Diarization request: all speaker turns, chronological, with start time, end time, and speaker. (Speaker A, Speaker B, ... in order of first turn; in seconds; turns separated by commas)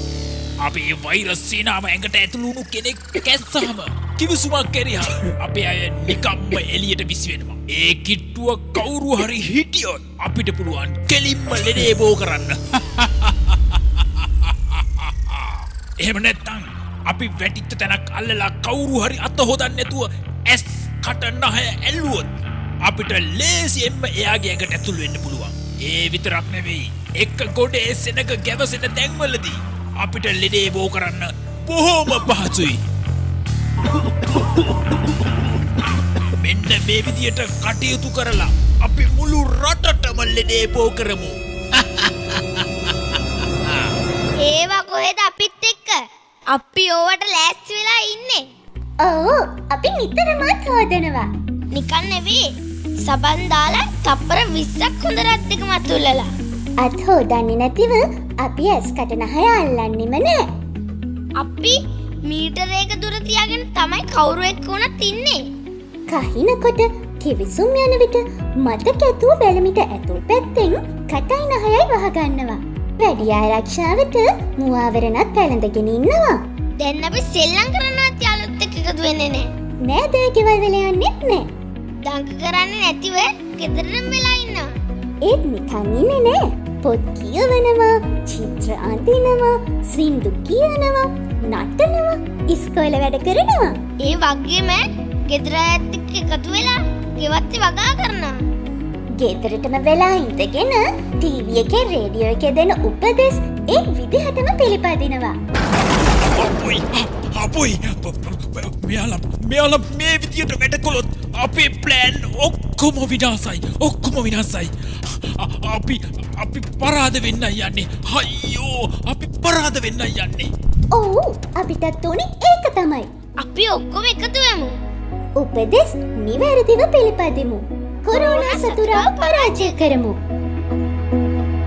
Speaker A: 0.6-22.3, Speaker A: 22.8-32.8, Speaker A: 36.3-42.6, Speaker B: 44.4-46.0, Speaker B: 46.5-48.4, Speaker C: 49.0-51.3, Speaker B: 51.7-52.4, Speaker B: 53.0-56.3, Speaker C: 56.8-60.5, Speaker B: 61.4-65.4, Speaker C: 66.1-76.4, Speaker B: 76.8-79.5, Speaker C: 79.8-81.5, Speaker B: 82.0-84.7, Speaker C: 85.2-93.8, Speaker B: 94.0-98.4, Speaker C: 99.2-105.3, Speaker A: 106.2-120.5, Speaker C: 120.9-123.1, Speaker B: 123.4-124.7, Speaker C: 125.4-130.2, Speaker B: 128.1-129.8